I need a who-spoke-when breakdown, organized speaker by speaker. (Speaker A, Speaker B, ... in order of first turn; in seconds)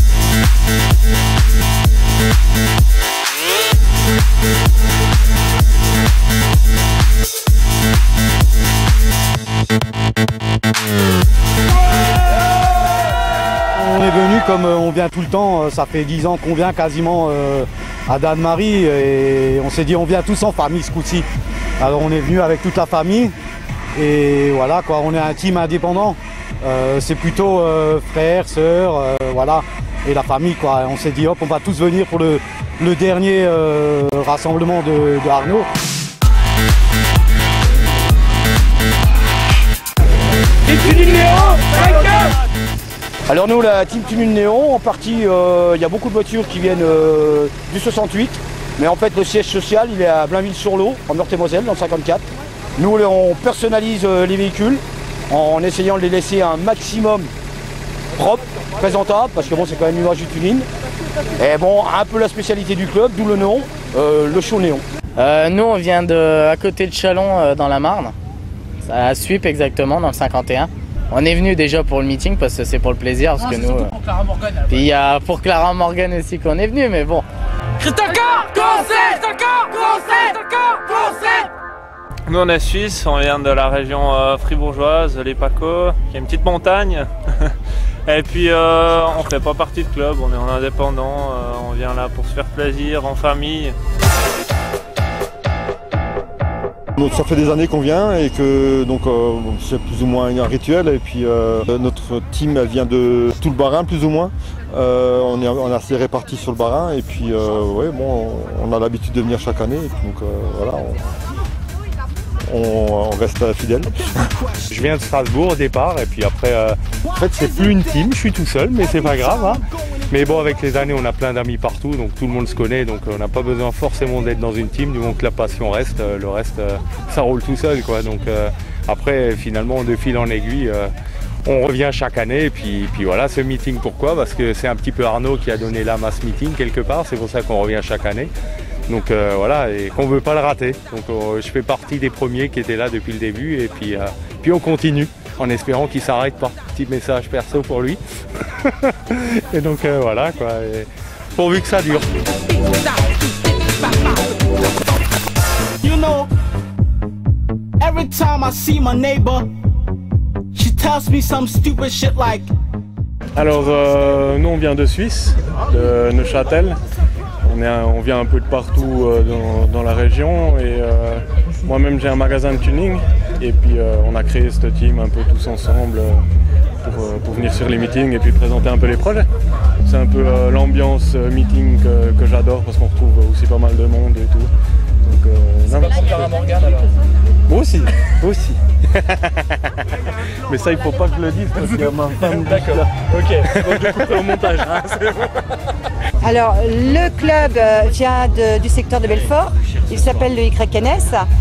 Speaker A: 13.8-21.3, 21.8-23.3, 24.0-35.7
Speaker B: 40.7-42.3, 43.3-52.2, 52.8-57.3, 58.2-60.7, 61.4-64.8
Speaker C: 65.2-68.1, 68.8-77.2
Speaker D: 82.3-87.5, 88.1-93.8
Speaker E: 97.0-111.0, 112.5-113.9
Speaker F: 114.7-130.9, 131.5-138.3, 138.9-152.1
Speaker G: 155.8-156.3, 157.8-159.4, 160.6-162.5
Speaker H: 163.4-166.8, 167.4-176.2, 176.8-179.3, 179.8-184.5, 185.0-186.5, 187.5-189.7, 190.5-194.5
Speaker I: 196.2-201.3